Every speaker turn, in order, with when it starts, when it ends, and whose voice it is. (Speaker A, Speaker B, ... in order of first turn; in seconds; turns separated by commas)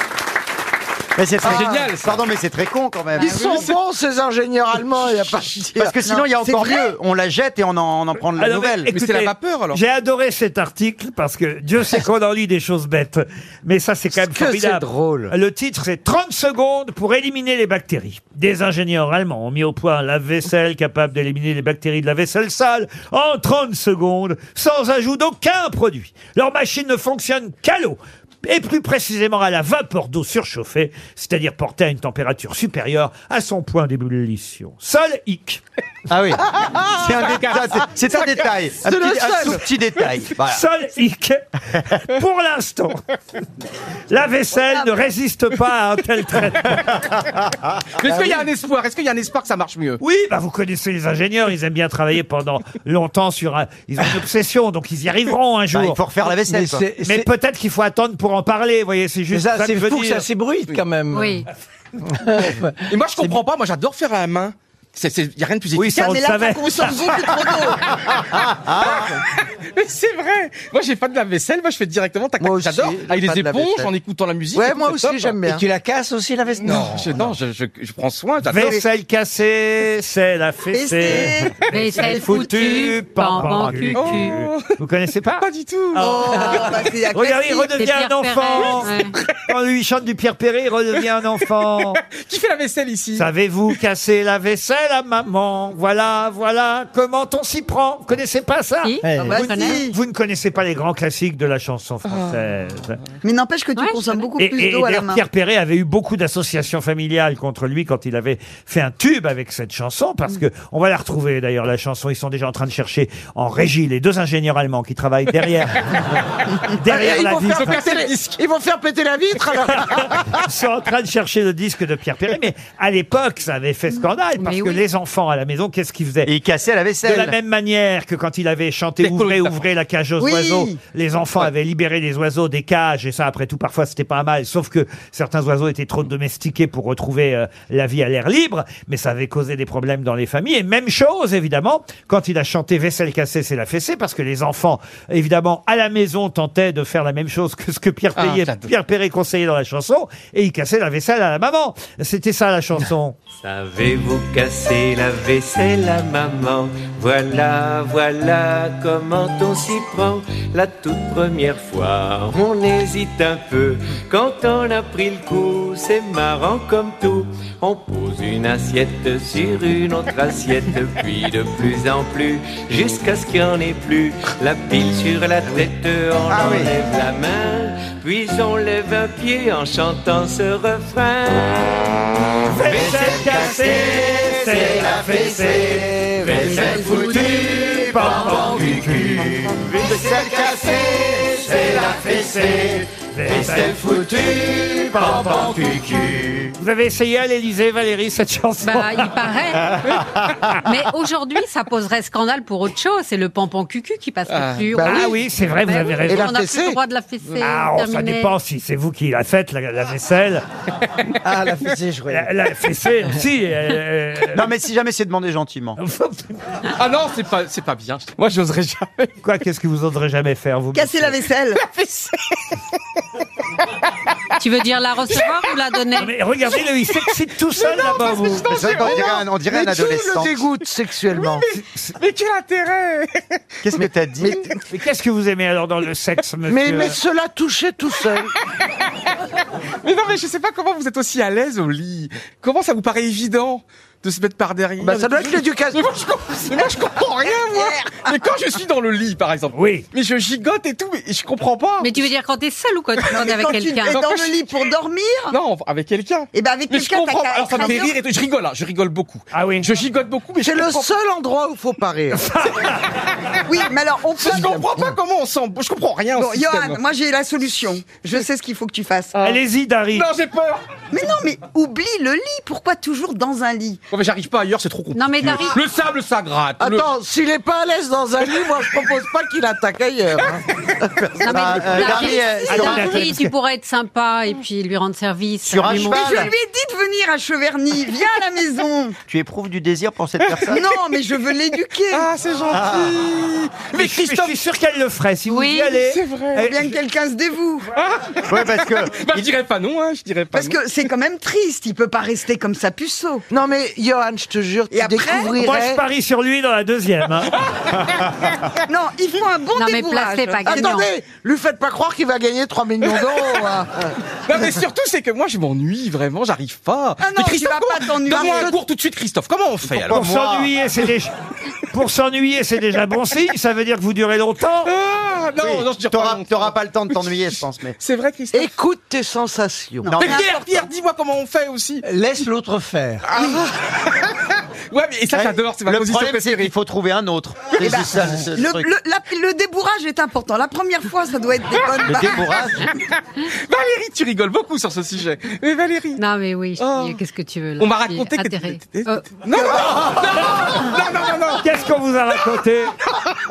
Speaker A: 1.1-3.7, Speaker B: 1.4-2.2, Speaker C: 1.4-1.7, Speaker C: 3.2-6.0, Speaker D: 3.2-3.6, Speaker A: 5.8-8.9, Speaker E: 6.0-6.9, Speaker F: 8.3-35.6, Speaker B: 8.9-9.8, Speaker C: 14.1-15.3, Speaker A: 36.1-40.6, Speaker C: 38.1-39.6, Speaker F: 40.4-41.4, Speaker F: 42.0-43.0, Speaker F: 44.1-46.9, Speaker B: 48.0-50.0, Speaker C: 48.1-48.4, Speaker F: 50.0-56.0, Speaker A: 55.7-56.8, Speaker G: 56.5-57.3, Speaker F: 57.0-60.3, Speaker G: 59.3-61.4, Speaker D: 61.1-61.5, Speaker G: 62.2-62.7, Speaker B: 62.9-66.3, Speaker F: 65.8-67.2, Speaker E: 66.0-67.8, Speaker A: 68.5-69.0, Speaker B: 68.8-75.3, Speaker C: 72.4-73.9, Speaker C: 74.5-75.6, Speaker G: 75.4-77.3, Speaker B: 76.6-78.8, Speaker F: 78.5-92.0, Speaker E: 80.7-81.5, Speaker D: 81.7-84.4, Speaker A: 83.4-83.9, Speaker B: 83.9-84.8, Speaker B: 85.4-86.7, Speaker E: 86.0-87.7, Speaker D: 87.8-89.1, Speaker B: 92.1-93.3, Speaker F: 93.1-103.0, Speaker D: 98.8-99.8, Speaker G: 99.0-99.4, Speaker E: 99.2-100.0, Speaker B: 102.1-102.3, Speaker E: 103.2-105.2, Speaker D: 103.8-104.3, Speaker F: 104.4-116.1, Speaker F: 116.6-117.8, Speaker C: 116.8-120.4, Speaker B: 117.4-118.4, Speaker F: 119.8-126.3, Speaker D: 124.4-124.8, Speaker A: 126.2-127.3, Speaker F: 127.0-153.2, Speaker B: 129.0-129.6, Speaker E: 130.2-130.8, Speaker B: 148.2-148.7, Speaker H: 153.4-181.9, Speaker A: 176.3-176.7, Speaker F: 182.4-190.2, Speaker A: 182.6-196.5, Speaker F: 191.6-195.6, Speaker F: 196.6-199.2, Speaker D: 198.6-199.8, Speaker D: 200.6-208.3, Speaker B: 204.3-204.7, Speaker C: 204.7-205.1, Speaker F: 204.8-206.3, Speaker C: 206.1-206.8, Speaker F: 207.4-210.4, Speaker G: 211.2-212.3, Speaker F: 212.1-214.4, Speaker A: 214.3-215.8, Speaker F: 215.8-216.5, Speaker B: 216.7-219.1, Speaker F: 219.2-221.2, Speaker E: 220.7-221.6, Speaker B: 221.6-222.4, Speaker D: 224.4-226.1, Speaker F: 226.0-228.6, Speaker B: 227.6-229.2, Speaker A: 228.5-230.4, Speaker C: 228.8-231.4, Speaker B: 231.1-233.3, Speaker F: 231.5-231.9, Speaker A: 233.6-234.5, Speaker C: 234.2-234.5, Speaker F: 234.7-237.0, Speaker C: 236.5-238.3, Speaker B: 239.8-252.0, Speaker C: 244.8-245.8, Speaker F: 249.5-249.8, Speaker D: 251.8-254.0, Speaker E: 253.1-255.3, Speaker B: 253.9-254.5, Speaker B: 255.3-260.9, Speaker E: 256.3-257.9, Speaker F: 259.3-259.7, Speaker C: 260.4-262.2, Speaker F: 262.1-262.9, Speaker E: 263.4-264.7, Speaker B: 264.2-266.8, Speaker E: 266.1-269.1, Speaker F: 269.2-270.1, Speaker B: 269.9-270.6, Speaker E: 270.9-273.8, Speaker B: 273.9-276.9, Speaker D: 274.9-275.6, Speaker C: 276.6-280.4, Speaker A: 281.2-283.1, Speaker D: 281.2-286.3, Speaker F: 281.9-283.3, Speaker A: 285.4-286.3, Speaker E: 285.7-288.9, Speaker A: 289.1-290.6, Speaker B: 290.2-290.5, Speaker E: 290.5-292.1, Speaker B: 291.9-294.4, Speaker A: 292.5-293.0, Speaker F: 293.7-296.7, Speaker E: 295.3-295.7, Speaker B: 295.8-296.4, Speaker E: 296.4-297.7, Speaker B: 297.7-300.6, Speaker A: 298.3-299.3, Speaker E: 300.3-303.2, Speaker C: 303.3-305.8, Speaker E: 304.7-305.3, Speaker F: 305.4-307.4, Speaker B: 307.5-307.9, Speaker E: 308.6-310.8, Speaker D: 309.5-310.9, Speaker C: 310.4-313.9, Speaker B: 314.2-320.0, Speaker E: 317.0-318.5, Speaker C: 318.1-318.6, Speaker A: 319.7-320.5, Speaker F: 319.9-321.1, Speaker F: 321.7-324.7, Speaker B: 324.6-326.5, Speaker A: 325.4-327.7, Speaker B: 327.8-328.5, Speaker C: 328.3-329.9, Speaker E: 329.8-330.5, Speaker A: 329.9-330.2, Speaker B: 330.0-331.9, Speaker G: 331.8-333.1, Speaker B: 333.0-336.5, Speaker A: 335.1-338.7, Speaker E: 337.6-342.2, Speaker A: 341.9-342.7, Speaker B: 342.7-346.0, Speaker D: 346.0-349.1, Speaker B: 346.6-347.0, Speaker B: 347.6-351.5, Speaker C: 349.3-350.6, Speaker F: 351.4-352.7